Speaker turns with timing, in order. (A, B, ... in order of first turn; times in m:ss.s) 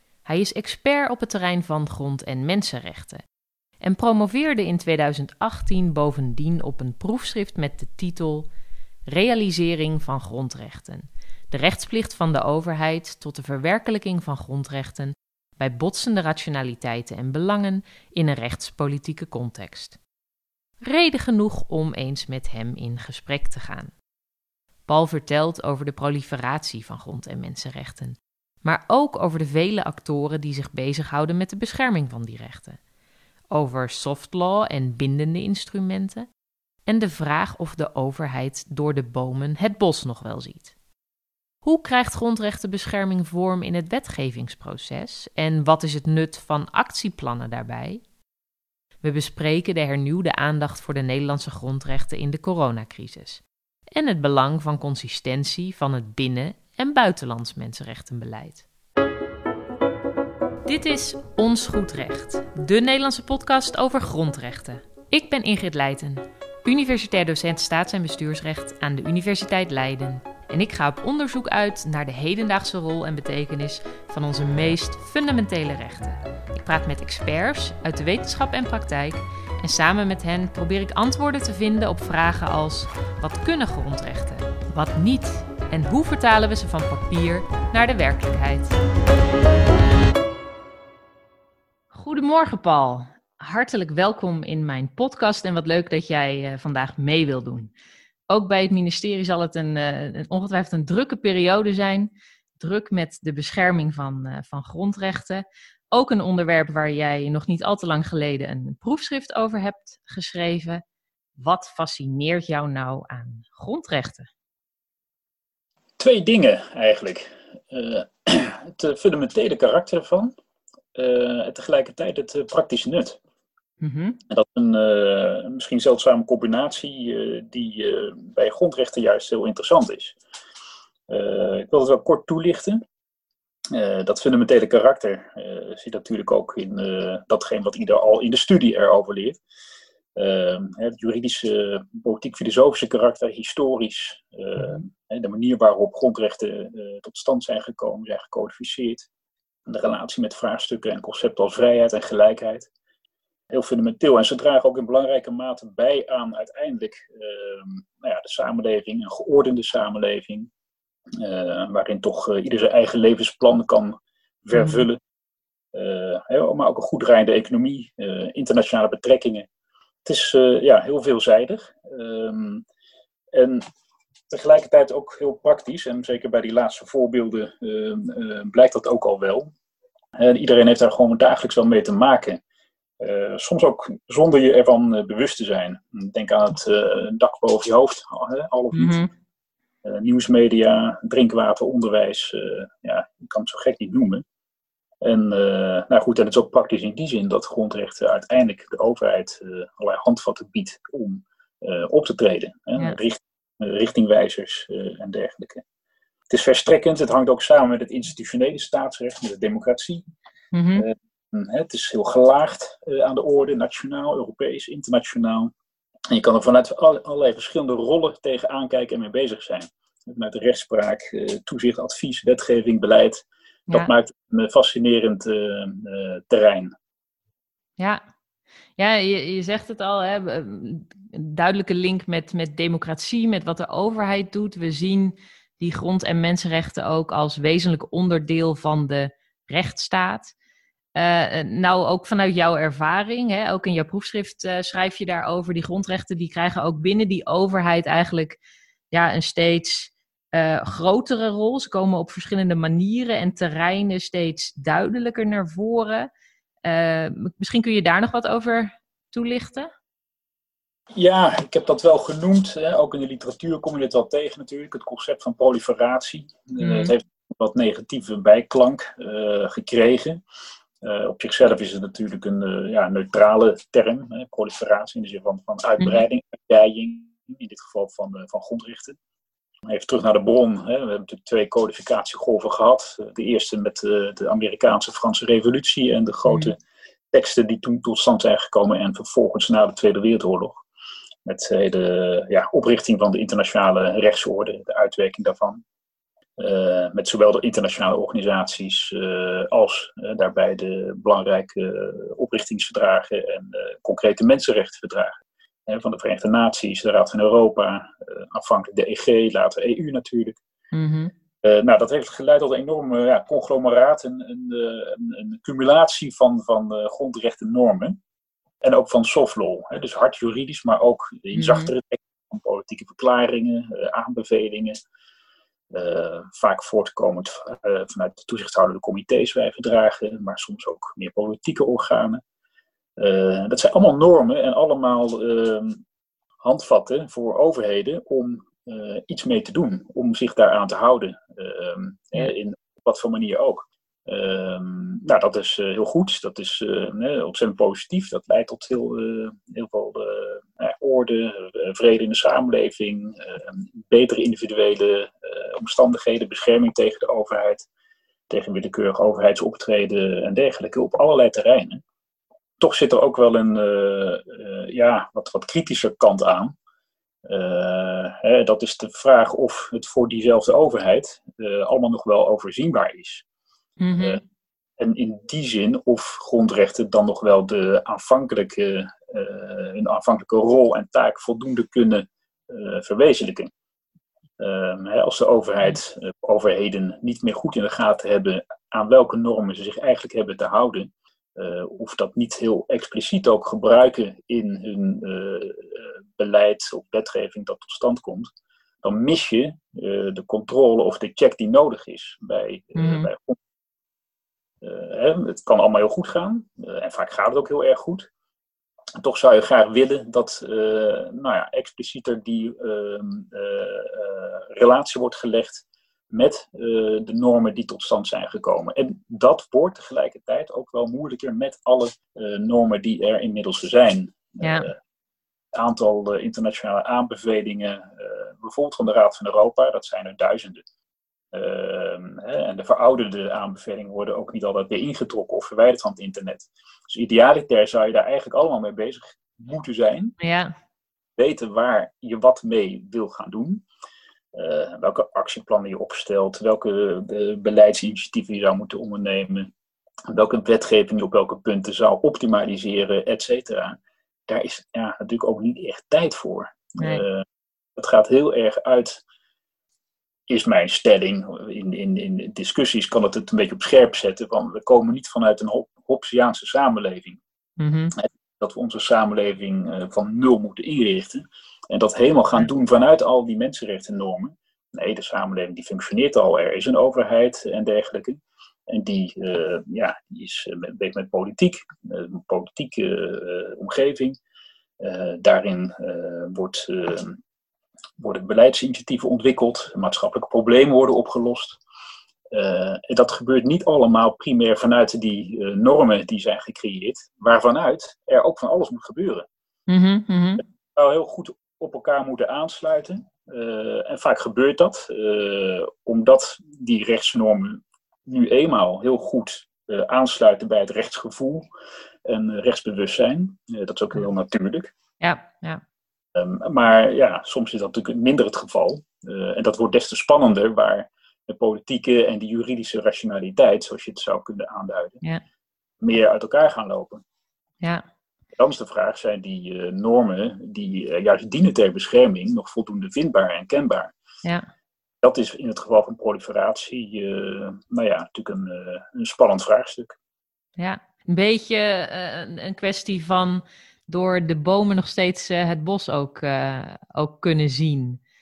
0:00.2-0:03.2 A
0:03.8-0:08.5 A
0:09.1-0:20.0 A
0:20.8-0:23.9 A
0:24.9-0:32.8 A
0:33.5-0:36.3 A
0:36.8-0:40.7 A
0:41.6-0:48.0 A
0:49.0-0:58.6 A
1:00.7-1:28.8 A
1:31.9-1:37.7 A
1:38.3-1:50.8 A
1:51.4-1:54.3 A
1:56.0-2:00.3 B
2:00.9-2:03.2 B
2:03.8-2:04.2 A
2:04.3-2:10.2 B
2:11.1-2:12.8 B
2:13.7-2:19.4 B
2:20.1-2:29.1 B
2:29.6-2:32.7 B
2:33.5-2:40.5 B
2:41.2-2:45.0 B
2:44.5-2:44.8 A
2:45.7-2:49.5 B
2:50.0-2:52.6 B
2:53.3-2:53.6 B
2:54.3-2:59.5 B
3:00.2-3:02.4 B
3:03.0-3:09.0 B
3:08.7-3:09.1 A
3:09.8-3:14.2 B
3:15.0-3:25.6 B
3:26.3-3:30.0 B
3:30.5-3:30.9 A
3:30.8-3:35.5 B
3:36.1-3:46.7 B
3:48.8-4:00.3 A
4:01.0-4:08.4 A
4:08.9-4:16.1 A
4:16.6-4:19.7 A
4:21.0-4:30.2 B
4:26.6-4:26.9 A
4:30.8-4:39.0 B
4:39.7-4:46.6 B
4:46.3-4:46.5 A
4:47.1-4:50.6 B
4:51.2-4:55.6 B
4:56.4-5:10.4 B
5:10.7-5:11.1 A
5:11.4-5:18.0 B
5:18.6-5:24.8 B
5:21.3-5:21.7 A
5:25.7-5:32.2 B
5:33.0-5:35.8 B
5:36.4-5:57.7 B
5:58.3-6:01.8 B
6:02.6-6:06.5 B
6:07.2-6:13.2 B
6:13.8-6:14.2 A
6:14.8-6:23.5 B
6:24.4-6:38.3 B
6:38.8-6:43.4 B
6:42.8-6:43.1 A
6:44.6-6:48.1 B
6:49.0-7:04.8 B
7:04.4-7:04.7 A
7:05.5-7:10.6 B
7:11.3-7:20.2 B
7:20.2-7:20.5 A
7:21.2-7:23.6 B
7:24.3-7:29.5 B
7:30.1-7:37.2 B
7:37.8-7:39.0 B
7:40.3-7:47.2 B
7:47.6-7:47.9 A
7:48.0-8:04.2 B
8:04.8-8:07.2 B
8:08.0-8:11.6 B
8:12.3-8:19.2 B
8:19.7-8:20.4 A
8:20.7-8:31.5 B
8:32.0-8:34.7 B
8:35.0-8:35.6 A
8:36.1-8:45.0 B
8:45.8-8:47.0 B
8:48.4-8:53.9 B
8:55.0-9:00.0 B
9:00.6-9:08.0 A